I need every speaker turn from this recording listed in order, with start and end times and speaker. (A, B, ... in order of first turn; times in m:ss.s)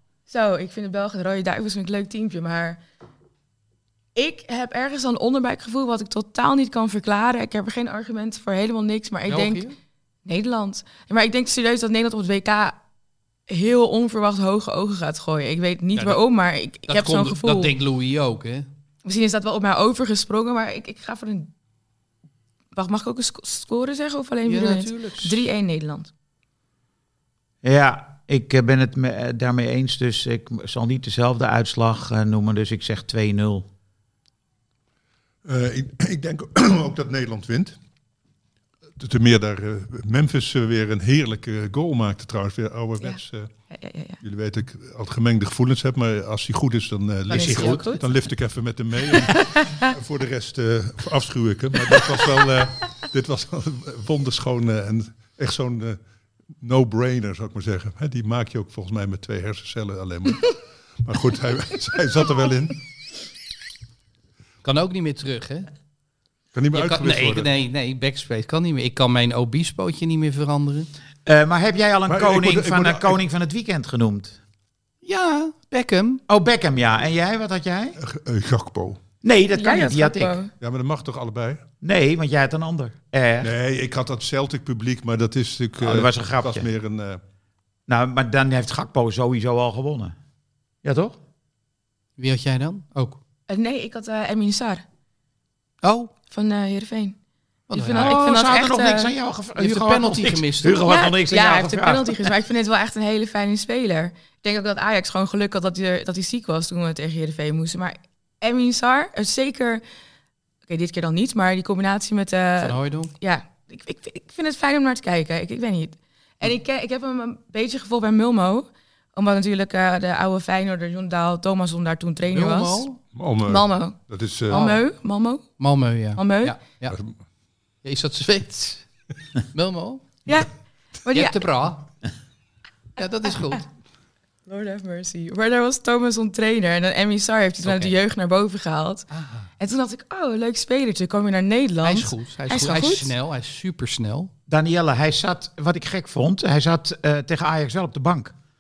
0:00.3-0:02.8 A
0:04.1-0:09.6 A
0:09.3-0:09.8 B
0:10.2-0:12.8 A
0:13.5-0:17.7 A
0:15.9-0:16.2 B
0:16.9-0:18.6 B
0:19.0-0:21.5 A
0:22.7-0:26.1 A
0:24.4-0:25.4 B
0:27.6-0:33.7 C
0:35.4-0:37.8 D
0:39.0-0:43.5 D
0:43.7-0:44.2 A
0:44.2-0:56.0 D
0:47.3-0:48.0 A
0:49.1-0:49.9 A
0:56.6-1:02.8 D
1:04.6-1:05.7 B
1:06.5-1:07.5 D
1:06.7-1:10.9 B
1:11.2-1:14.4 C
1:12.1-1:13.2 D
1:15.0-1:16.2 B
1:16.3-1:18.0 C
1:18.0-1:19.0 D
1:19.2-1:20.4 C
1:19.5-1:20.5 A
1:20.6-1:21.6 D
1:21.8-1:23.5 C
1:23.4-1:27.2 D
1:25.8-1:26.7 C
1:27.9-1:30.1 C
1:30.8-1:31.2 C
1:32.2-1:33.2 B
1:33.5-1:34.8 A
1:35.8-1:36.1 B
1:36.3-1:37.2 A
1:37.7-1:38.3 B
1:37.7-1:39.1 A
1:38.0-1:42.3 C
1:39.6-1:41.0 B
1:40.8-1:49.8 A
1:50.7-2:02.8 A
1:52.6-1:53.1 B
2:02.3-2:03.0 B
2:03.1-2:04.6 D
2:03.4-2:04.0 A
2:04.5-2:05.5 A
2:04.5-2:04.8 B
2:05.6-2:07.0 B
2:06.1-2:06.6 A
2:06.9-2:07.1 D
2:07.8-2:08.9 B
2:09.5-2:10.2 B
2:11.0-2:11.4 A
2:11.1-2:11.9 B
2:13.0-2:13.6 B
2:14.5-2:23.1 A
2:17.6-2:18.0 B
2:19.1-2:19.5 B
2:21.8-2:24.3 B
2:24.5-2:28.3 C